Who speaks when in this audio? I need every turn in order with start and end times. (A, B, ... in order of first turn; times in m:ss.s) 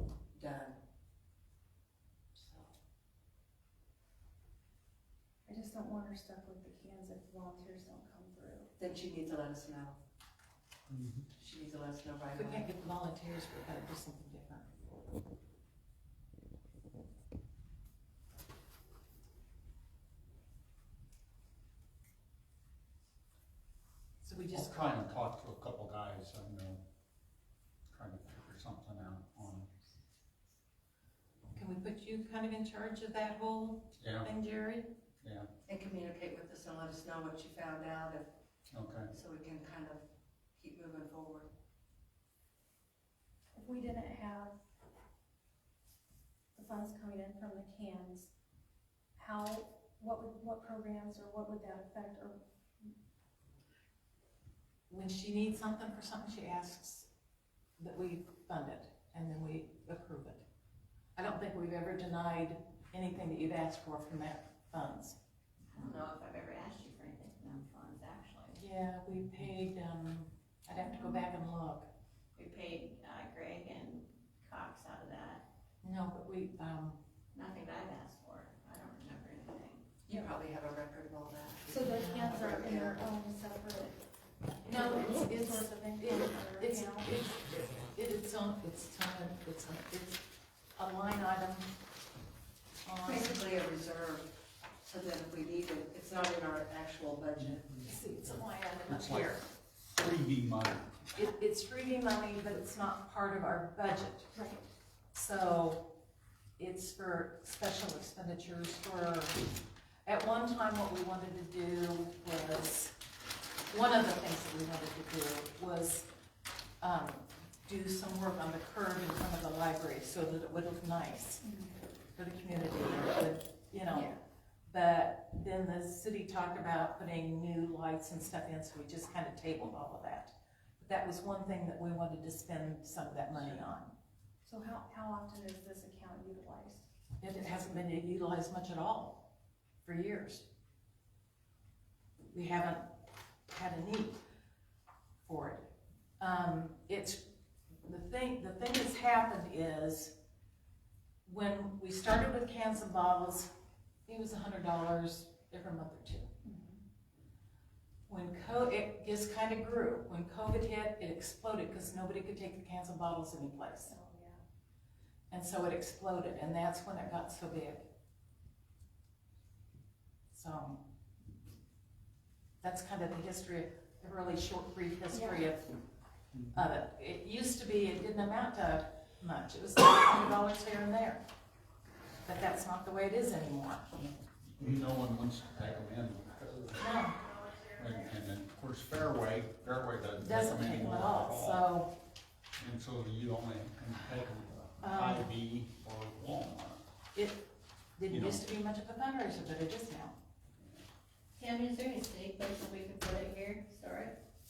0:00.3-0:00.8 A
0:02.4-0:02.7 A
0:05.4-0:08.7 B
0:08.8-0:10.0 A
0:10.9-0:11.2 C
0:11.3-0:12.7 A
0:12.3-0:14.7 D
0:24.2-0:25.0 D
0:24.5-0:26.8 C
0:27.9-0:29.7 C
0:31.5-0:34.9 D
0:34.0-0:34.3 C
0:35.2-0:35.5 C
0:35.7-0:38.3 A
0:38.7-0:39.1 C
0:39.1-0:40.0 A
0:40.6-0:41.5 A
0:43.6-0:44.5 B
0:46.5-0:48.3 B
0:49.2-0:52.9 B
0:54.9-0:57.1 D
0:57.8-1:00.4 D
1:01.1-1:05.2 D
1:05.7-1:08.6 E
1:08.6-1:11.9 D
1:12.4-1:15.4 E
1:15.8-1:17.0 D
1:17.3-1:19.8 E
1:20.1-1:23.0 A
1:21.7-1:24.0 B
1:22.0-1:22.3 D
1:24.6-1:27.1 B
1:24.6-1:30.2 D
1:30.8-1:31.7 D
1:32.8-1:33.4 D
1:33.0-1:34.3 A
1:34.8-1:37.6 A
1:37.4-1:39.4 C
1:37.8-1:39.4 D
1:39.9-1:41.0 C
1:41.2-1:44.3 D
1:44.3-1:44.6 B
1:45.1-1:45.8 D
1:46.6-1:49.4 D
1:50.0-1:52.9 D
1:53.7-1:56.1 D
1:56.8-2:01.4 D
2:01.4-2:01.7 B
2:02.1-2:04.1 D
2:03.9-2:04.2 B
2:04.7-2:13.9 D
2:14.4-2:16.9 B
2:17.2-2:19.2 D
2:19.8-2:20.4 D
2:22.3-2:22.8 D
2:23.5-2:24.2 D
2:25.2-2:25.6 D
2:26.2-2:27.2 D
2:27.8-2:30.1 D
2:31.2-2:33.5 D
2:34.1-2:36.3 D
2:36.4-2:36.8 B
2:38.1-2:43.9 D
2:43.8-2:44.4 B
2:45.3-2:47.9 D
2:50.3-2:50.8 D
2:52.6-2:55.7 D
2:55.1-2:55.5 B
2:56.5-3:01.2 D
3:02.2-3:03.8 D
3:03.9-3:07.0 C
3:06.8-3:07.2 D
3:07.8-3:11.6 C
3:10.2-3:11.9 D
3:12.6-3:16.8 C
3:14.8-3:15.3 D
3:17.1-3:17.4 D
3:18.0-3:20.2 D
3:18.1-3:18.4 C
3:21.4-3:24.2 E